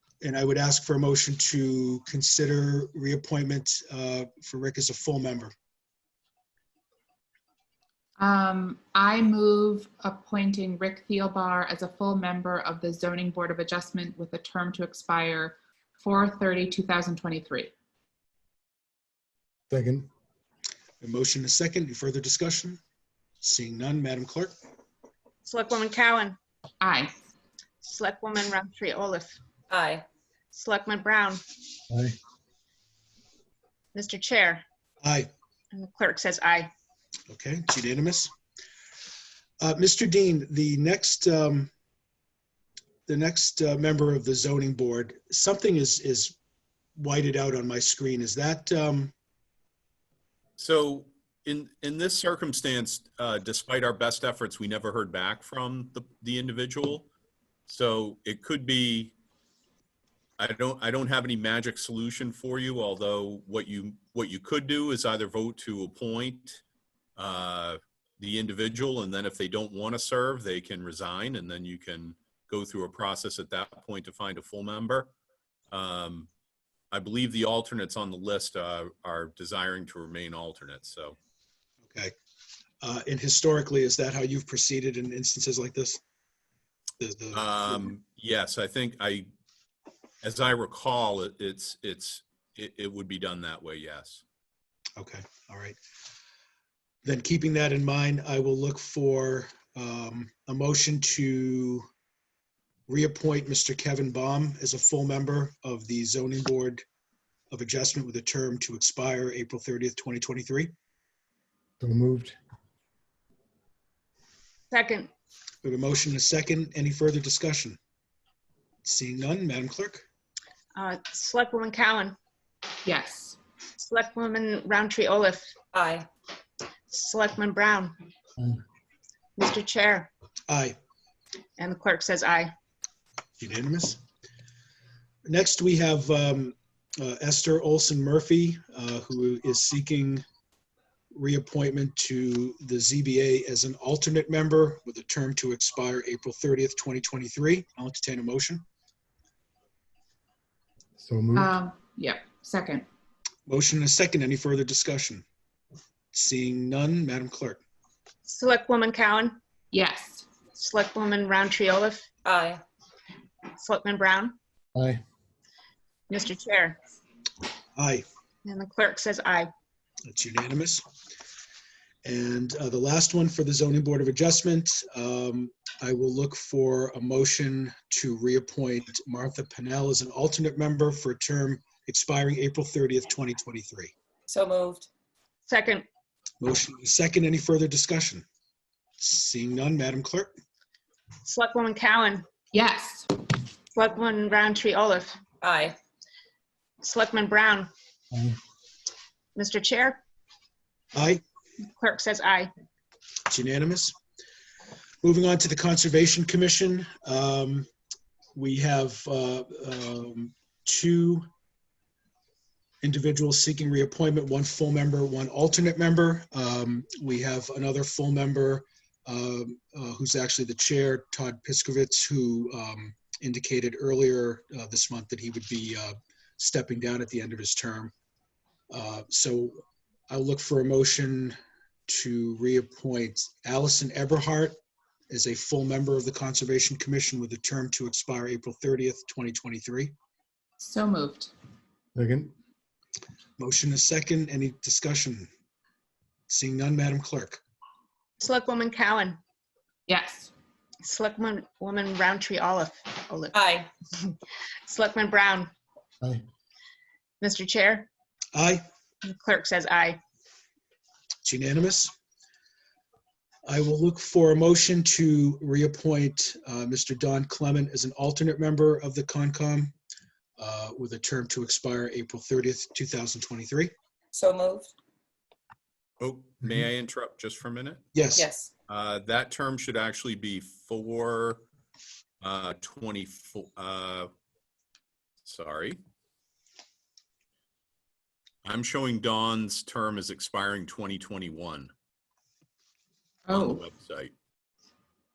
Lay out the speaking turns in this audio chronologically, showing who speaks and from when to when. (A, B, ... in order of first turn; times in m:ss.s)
0:00.2-0:05.5 A
0:08.2-0:17.7 B
0:19.7-0:20.1 C
0:21.0-0:22.8 A
0:23.4-0:24.5 A
0:25.4-0:26.4 D
0:26.8-0:27.1 B
0:27.8-0:29.4 D
0:29.7-0:30.0 E
0:30.5-0:31.4 D
0:31.9-0:32.2 C
0:33.9-0:34.6 D
0:35.0-0:35.3 A
0:35.7-0:36.7 D
0:37.3-0:38.3 A
0:39.6-0:41.7 A
0:43.1-0:46.4 A
0:47.0-0:49.1 A
0:50.6-0:57.1 F
0:57.6-0:59.1 F
1:00.4-1:06.6 F
1:07.2-1:15.1 F
1:15.7-1:16.3 F
1:16.9-1:21.2 F
1:21.9-1:22.1 A
1:22.8-1:26.0 A
1:27.0-1:27.9 A
1:27.3-1:29.3 F
1:30.2-1:34.2 F
1:35.0-1:35.8 A
1:37.0-1:41.9 A
1:42.9-1:46.8 A
1:47.5-1:50.7 A
1:51.8-1:52.4 C
1:54.7-1:55.1 D
1:55.6-1:57.8 A
1:58.8-2:00.0 A
2:00.7-2:02.1 D
2:02.8-2:03.4 B
2:03.8-2:05.5 D
2:05.7-2:06.1 E
2:06.9-2:07.9 D
2:09.4-2:10.1 D
2:10.5-2:10.8 A
2:11.6-2:12.5 D
2:13.4-2:14.0 A
2:15.2-2:20.2 A
2:21.1-2:28.6 A
2:31.0-2:31.5 C
2:31.3-2:32.8 B
2:33.5-2:35.2 A
2:36.1-2:37.6 A
2:38.2-2:39.4 D
2:39.7-2:40.2 B
2:40.6-2:42.0 D
2:42.2-2:42.6 E
2:43.6-2:44.4 D
2:44.7-2:45.0 C
2:46.1-2:46.8 D
2:47.8-2:48.0 A
2:48.4-2:49.5 D
2:50.1-2:50.8 A
2:52.0-3:03.9 A
3:04.3-3:04.9 E
3:05.5-3:05.8 D
3:06.4-3:08.2 A
3:09.0-3:10.3 A
3:11.2-3:12.3 D
3:12.5-3:13.2 B
3:13.7-3:15.2 D
3:15.4-3:15.8 E
3:16.8-3:17.7 D
3:19.4-3:20.0 D
3:20.9-3:21.2 A
3:21.6-3:22.5 D
3:23.3-3:23.9 A
3:25.0-3:27.7 A
3:28.3-3:31.2 A
3:32.8-3:47.9 A
3:48.7-3:51.4 A
3:51.9-3:54.6 A
3:55.1-3:59.9 A
4:00.6-4:01.3 B
4:01.9-4:02.3 C
4:03.4-4:05.3 A
4:06.3-4:07.4 A
4:08.2-4:09.2 D
4:09.9-4:10.3 B
4:10.8-4:13.4 D
4:13.3-4:13.7 E
4:14.7-4:15.5 D
4:17.2-4:17.9 D
4:18.3-4:18.6 A
4:19.0-4:20.0 D
4:21.2-4:21.9 A
4:23.4-4:29.7 A
4:30.4-4:33.7 A
4:34.1-4:34.7 E
4:36.0-4:37.9 F
4:37.9-4:38.3 A
4:38.2-4:38.5 E
4:38.7-4:41.4 F
4:42.2-4:44.1 F
4:45.2-4:45.8 F
4:48.4-4:51.7 F
4:53.3-4:53.6 B
4:53.3-4:54.1 F